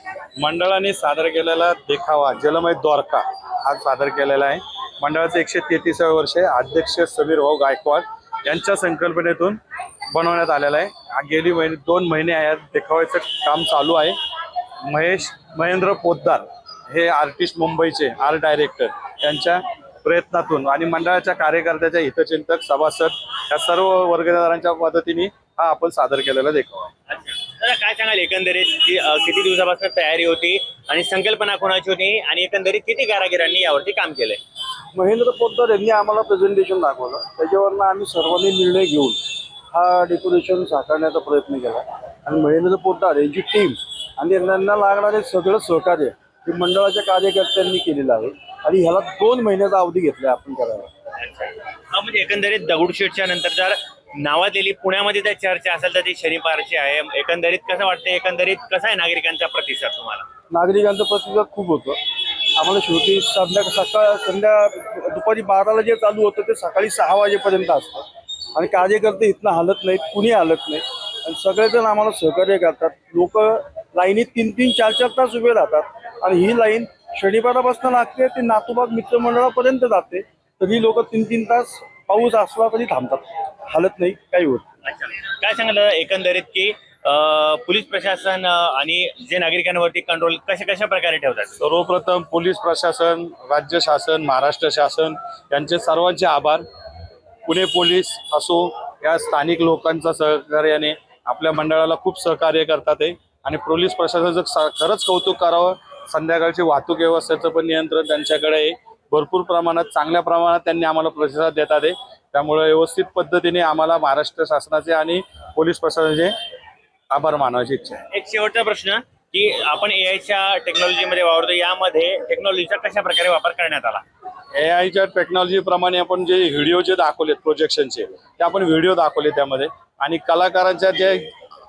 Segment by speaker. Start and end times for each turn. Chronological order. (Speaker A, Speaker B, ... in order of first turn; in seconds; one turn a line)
Speaker A: 0.4-9.6
Speaker A: 10.1-14.2
Speaker A: 14.8-26.9
Speaker B: 27.1-34.4
Speaker C: 34.9-39.2
Speaker C: 39.7-50.9
Speaker B: 51.2-60.2
Speaker C: 60.5-62.0
Speaker C: 62.6-84.7
Speaker B: 84.8-91.6
Speaker A: 91.6-96.6
Speaker A: 97.5-116.3
Speaker A: 117.1-118.0
Speaker B: 118.1-124.0
Speaker A: 124.5-131.3